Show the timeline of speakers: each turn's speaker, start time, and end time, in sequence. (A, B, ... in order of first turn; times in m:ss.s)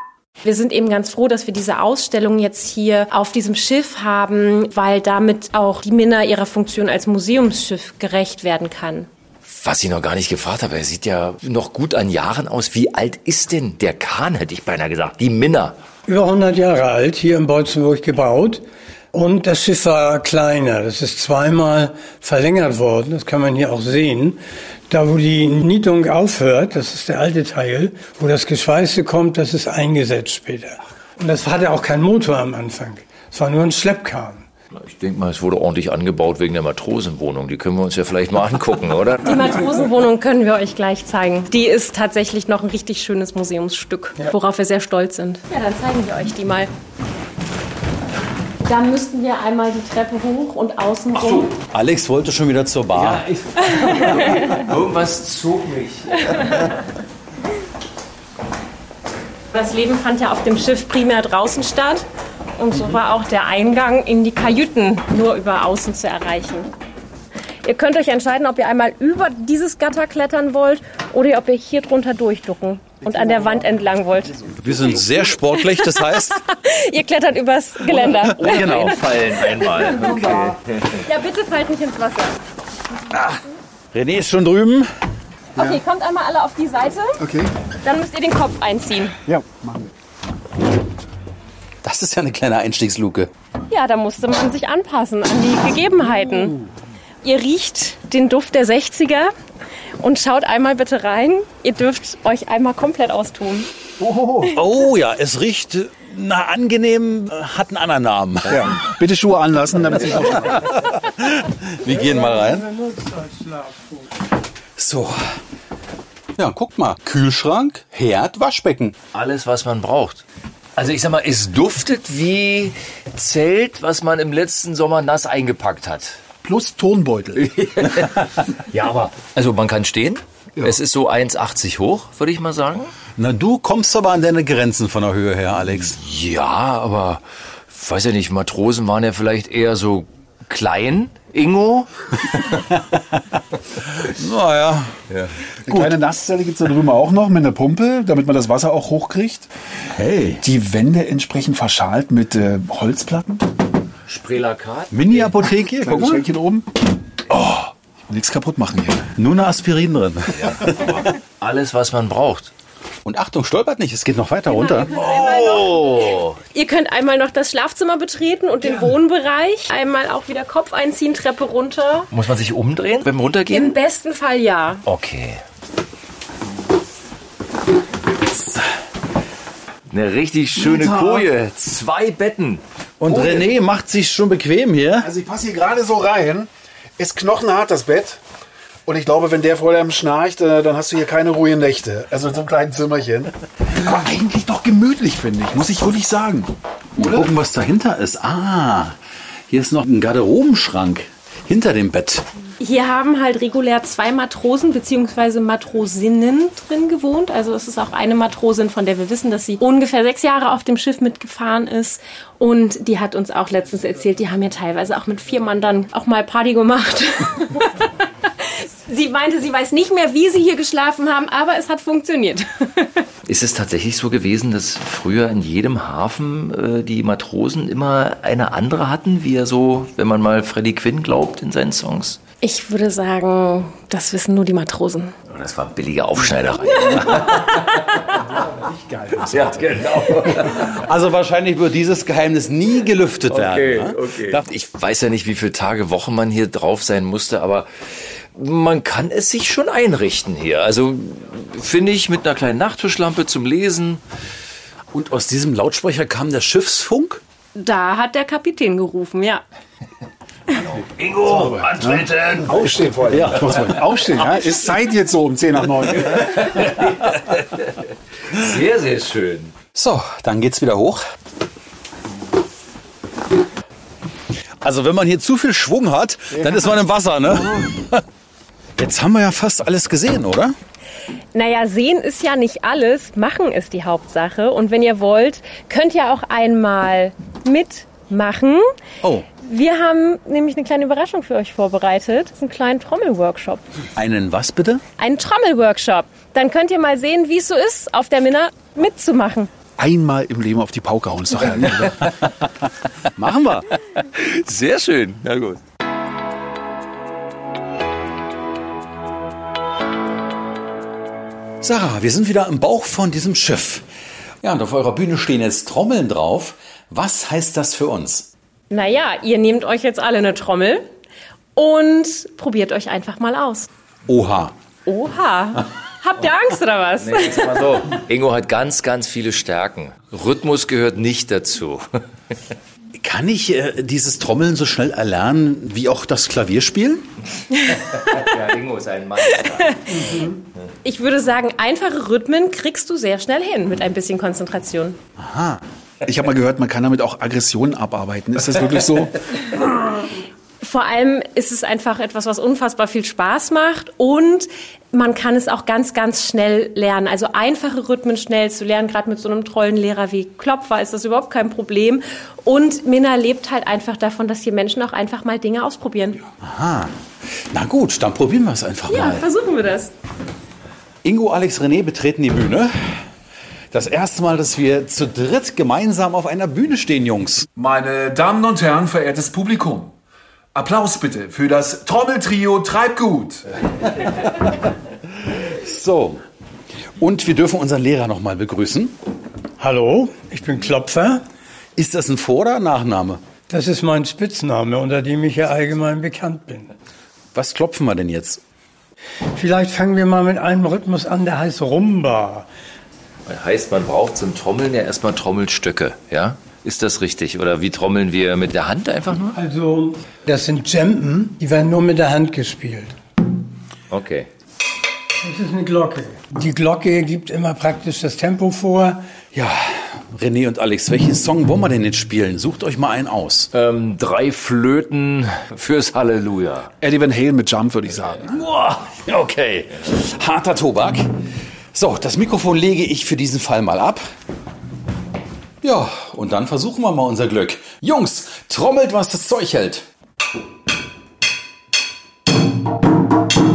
0:00.4-0:09.1 A
0:09.4-0:15.8 B
0:16.1-0:34.4 C
0:34.7-0:39.5 B
0:39.2-0:46.7 A
0:48.6-0:51.5 A
0:51.1-0:53.2 D
0:52.9-0:56.7 B
0:53.6-0:54.5 A
0:56.3-0:56.7 A
0:59.5-1:02.0 A
1:02.6-1:06.7 A
1:07.6-1:14.5 A
1:13.0-1:14.5 E
1:14.6-1:16.4 D
1:15.6-1:19.9 A
1:17.9-1:18.9 D
1:18.2-1:21.0 B
1:21.0-1:22.4 A
1:23.9-1:24.9 D
1:25.5-1:27.2 A
1:27.2-1:27.5 E
1:27.8-1:29.2 A
1:29.2-1:29.9 E
1:31.8-1:33.3 D
1:33.7-1:36.5 A
1:37.2-1:39.3 A
1:40.0-1:43.7 A
1:44.0-1:44.5 E
1:44.5-1:48.7 D
1:48.5-1:50.7 E
1:51.1-1:52.6 D
1:51.9-1:54.0 C
1:54.8-1:55.4 D
1:56.4-1:59.0 D
1:59.1-2:00.2 B
2:00.8-2:06.2 B
2:06.4-2:07.5 E
2:07.4-2:12.9 B
2:13.2-2:16.0 D
2:16.0-2:22.5 B
2:24.0-2:24.9 D
2:25.7-2:29.5 E
2:29.8-2:30.4 D
2:30.4-2:33.5 E
2:34.1-2:35.3 B
2:34.9-2:36.2 D
2:35.8-2:36.7 E
2:37.3-2:39.1 E
2:39.2-2:41.0 D
2:40.4-2:42.5 B
2:43.0-2:45.1 D
2:44.5-2:52.1 A
2:44.9-2:46.4 B
2:52.1-2:53.8 B
2:53.5-2:54.8 A
2:54.8-2:55.4 B
2:58.3-2:58.6 D
2:59.9-3:03.4 B
3:00.7-3:01.2 E
3:03.0-3:05.1 D
3:05.0-3:08.2 E
3:08.8-3:17.3 E
3:17.0-3:19.0 D
3:19.5-3:22.3 D
3:22.6-3:43.0 A
3:43.3-3:52.2 B
3:52.4-3:55.1 A
3:55.3-3:58.0 B
3:58.1-4:00.5 E
3:59.3-4:00.8 B
4:00.6-4:04.4 D
4:03.3-4:07.7 B
4:08.3-4:14.0 B
4:14.9-4:17.2 D
4:17.5-4:19.4 A
4:20.5-4:22.7 B
4:21.2-4:26.4 E
4:23.1-4:24.7 D
4:26.0-4:29.5 B
4:29.7-4:31.0 D
4:34.6-4:38.0 D
4:38.8-4:40.6 D
4:41.3-4:48.7 A
4:49.4-4:53.6 A
4:54.0-4:54.8 D
4:55.0-4:59.5 A
4:59.8-5:02.0 E
5:03.2-5:03.7 D
5:04.1-5:05.6 B
5:11.6-5:13.8 D
5:14.4-5:18.3 D
5:18.7-5:20.9 A
5:21.6-5:23.7 A
5:24.0-5:24.5 D
5:24.8-5:27.5 A
5:27.0-5:32.0 B
5:33.0-5:37.1 D
5:37.6-5:38.1 A
5:37.9-5:39.8 B
5:39.3-5:40.2 A
5:40.8-5:45.0 A
5:45.2-5:45.6 D
5:46.0-5:49.3 E
5:50.6-6:06.2 A
6:06.4-6:09.3 D
6:08.9-6:09.9 A
6:11.0-6:13.0 D
6:13.7-6:17.5 D
6:17.6-6:19.9 E
6:20.5-6:23.5 E
6:25.2-6:26.2 D
6:27.0-6:29.0 D
6:29.6-6:31.2 C
6:31.8-6:33.2 D
6:33.5-6:36.7 C
6:37.3-6:38.4 D
6:39.3-6:42.5 C
6:43.2-6:49.4 B
6:49.3-6:52.9 C
6:53.9-6:54.3 B
6:55.2-6:59.0 C
6:59.3-7:03.5 D
7:03.5-7:06.7 B
7:06.8-7:08.4 E
7:08.3-7:09.0 B
7:09.1-7:11.1 D
7:11.7-7:14.1 D
7:15.6-7:19.9 D